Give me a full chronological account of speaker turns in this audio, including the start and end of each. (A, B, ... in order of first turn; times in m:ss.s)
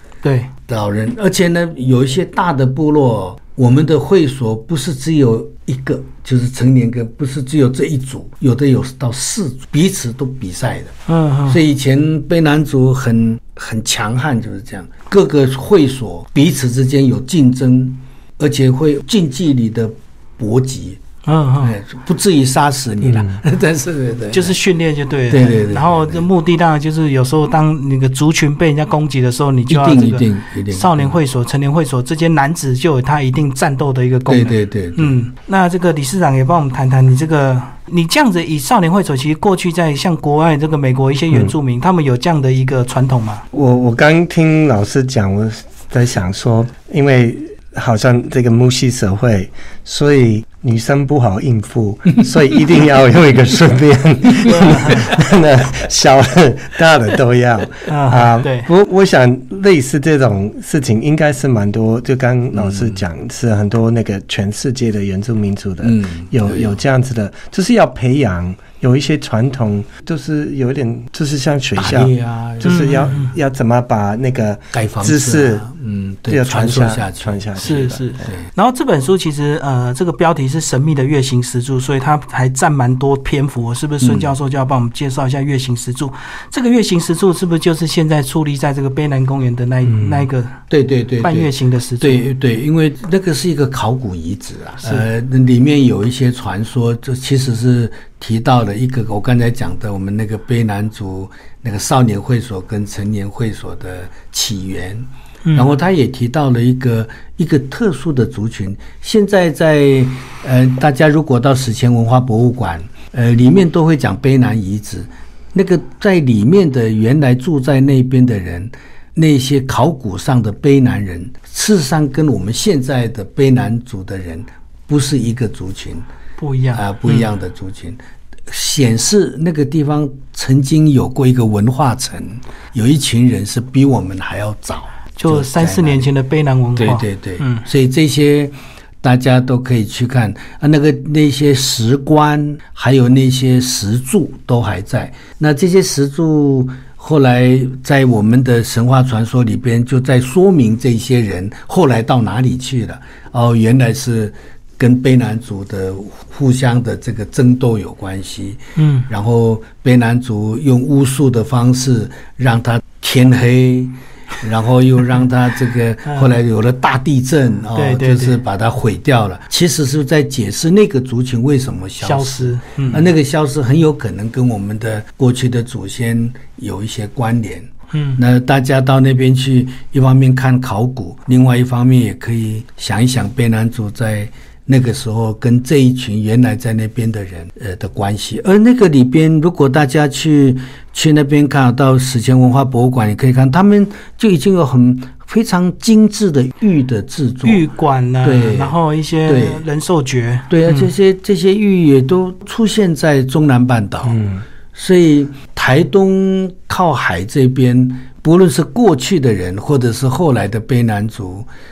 0:00.2-0:00.5 A
0:00.7-0:10.9 B
0:11.1-0:11.6 A
0:11.5-0:21.0 B
0:21.2-0:21.7 A
0:21.6-0:24.6 B
0:23.0-0:23.4 C
0:24.3-0:43.4 A
0:25.3-0:26.3 B
0:29.7-0:31.2 B
0:34.3-0:35.1 B
0:43.5-1:15.6 C
0:54.5-0:55.0 A
0:57.9-0:58.7 A
1:02.5-1:03.0 B
1:05.8-1:06.8 B
1:11.8-1:13.1 B
1:12.6-1:13.3 A
1:14.7-1:18.5 B
1:16.3-1:18.0 C
1:17.6-1:30.6 A
1:24.0-1:24.3 B
1:29.9-1:30.2 C
1:30.7-2:06.1 B
1:31.2-1:32.2 A
1:34.8-1:35.1 A
2:06.4-2:07.3 A
2:06.7-2:16.1 B
2:15.2-2:17.6 A
2:16.8-3:17.7 B
2:38.8-2:39.1 A
2:47.7-2:48.4 A
2:52.0-2:53.1 A
2:57.9-2:58.2 A
3:17.4-3:20.9 A
3:18.2-3:19.6 B
3:20.5-3:24.2 B
3:24.1-3:24.4 C
3:24.7-3:31.5 B